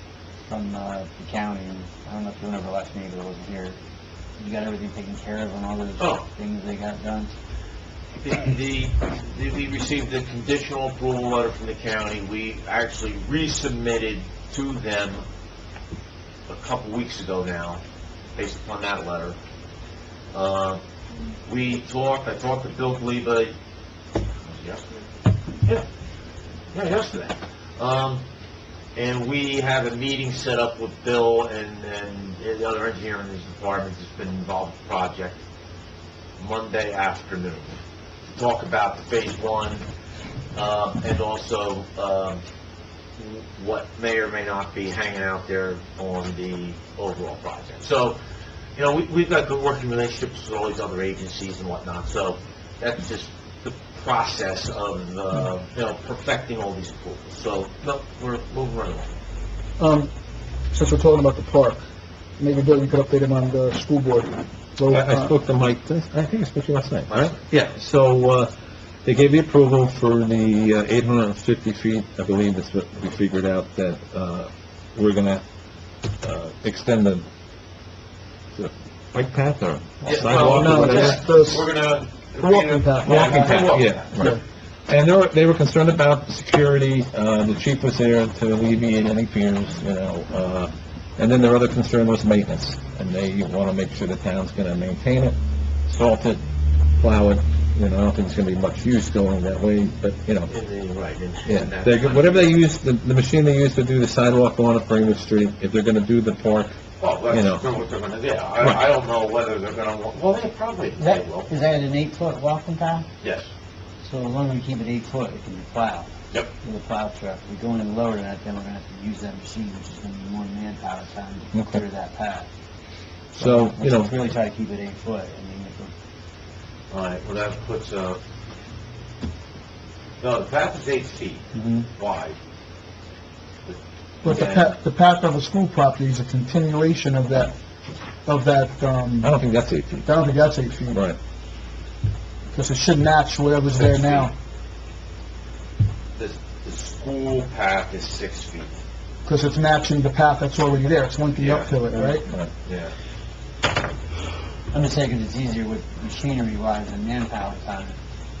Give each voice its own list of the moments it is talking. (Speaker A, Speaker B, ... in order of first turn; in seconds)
Speaker A: 0.4-3.8, 4.4-7.3, 111.0-113.0, 114.0-116.1, 116.6-122.5, 123.3-125.9, 131.5-131.9, 154.7-158.0
Speaker B: 6.0-6.2, 8.2-15.2, 16.5-17.8, 18.4-19.4, 20.3-20.8, 21.4-23.5, 24.4-25.1, 26.7-28.2, 28.9-35.4, 36.4-37.8, 38.3-39.8, 40.5-42.4, 43.2-48.2, 48.8-59.1, 67.1-67.4, 80.0-84.1, 100.5-102.6, 107.0-111.5, 113.2-113.5, 126.9-128.2, 130.2-132.3, 133.7-134.7, 146.2-148.7, 151.4-151.8, 152.7-152.9
Speaker C: 59.8-60.1, 60.7-61.8, 62.4-65.3, 80.3-81.7, 82.4-84.4, 134.2-137.5, 138.2-139.3, 140.0-141.1, 142.5-144.3, 149.2-152.2
Speaker D: 64.9-68.5, 69.0-75.4, 76.2-77.2, 78.5-81.2, 83.0-84.4, 84.9-95.3, 95.9-96.4, 97.0-100.5, 101.4-106.7, 107.3-107.6, 121.5-121.8, 123.3-124.1, 139.2-140.1, 140.9-141.2, 152.2-152.5